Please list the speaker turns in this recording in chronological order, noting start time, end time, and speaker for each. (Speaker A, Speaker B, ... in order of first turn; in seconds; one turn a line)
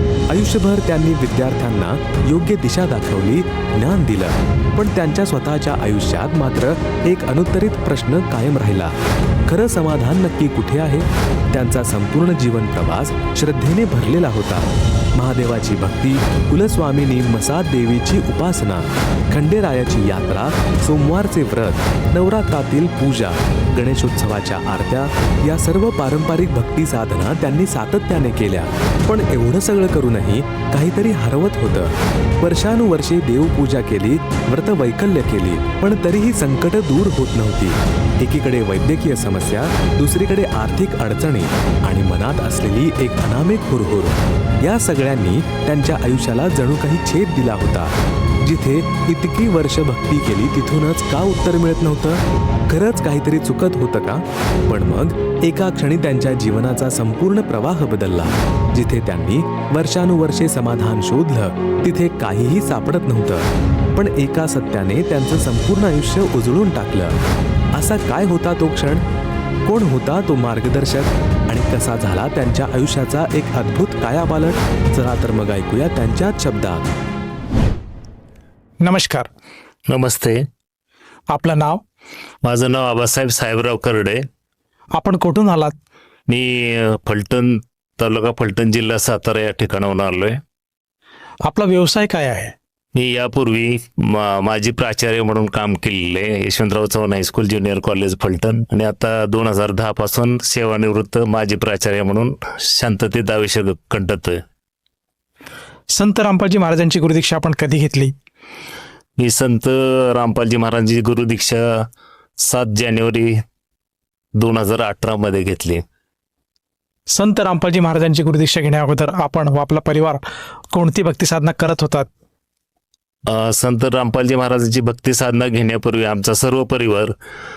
Speaker A: 0.3-8.9
Speaker A: 9.5-67.2
Speaker A: 67.7-69.0
Speaker A: 69.6-76.9
Speaker B: 78.8-79.3
Speaker C: 79.9-80.4
Speaker B: 81.3-81.8
Speaker C: 82.4-84.2
Speaker B: 85.0-85.7
Speaker C: 86.3-90.4
Speaker B: 91.4-92.5
Speaker C: 92.9-104.4
Speaker B: 105.9-108.1
Speaker C: 109.2-111.8
Speaker C: 112.4-113.4
Speaker C: 114.4-115.8
Speaker B: 117.1-120.2
Speaker B: 120.7-122.1
Speaker C: 123.3-127.1